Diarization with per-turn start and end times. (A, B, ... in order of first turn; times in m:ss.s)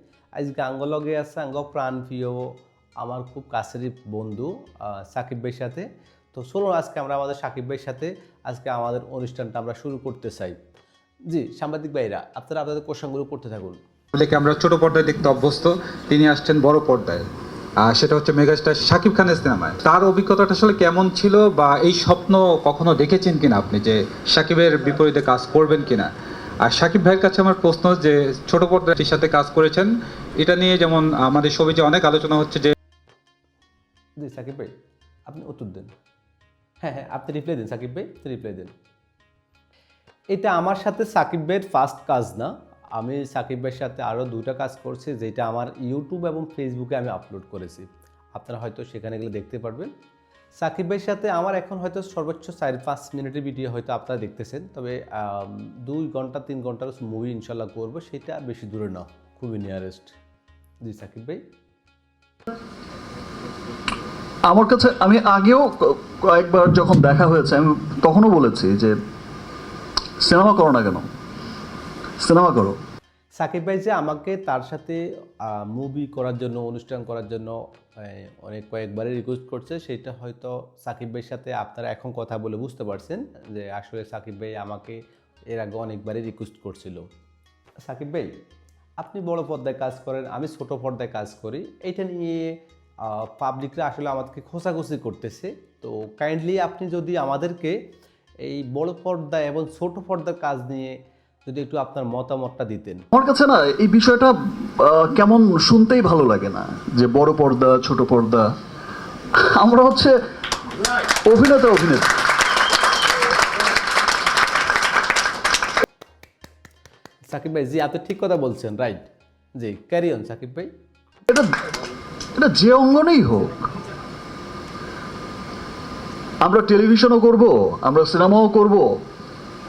0:00.4-0:10.6 A
0:11.3-0:13.8 A
0:14.1-0:17.3 B
0:17.8-0:26.1 B
0:26.6-0:32.7 B
0:34.2-0:34.7 A
0:35.3-0:35.9 A
0:36.8-0:38.7 A
0:40.3-0:49.9 A
0:50.6-1:00.1 A
1:00.8-1:01.4 A
1:04.5-1:08.9 C
1:10.2-1:11.1 C
1:12.2-1:12.8 C
1:13.4-1:25.0 A
1:25.5-1:27.0 A
1:27.8-1:28.3 A
1:29.0-1:37.8 A
1:38.4-1:40.9 A
1:41.4-1:43.0 A
1:43.1-1:48.5 C
1:49.6-1:50.1 C
1:51.3-1:52.2 C
1:57.3-1:59.0 A
1:59.6-2:00.7 A
2:02.4-2:03.7 C
2:06.4-2:08.9 C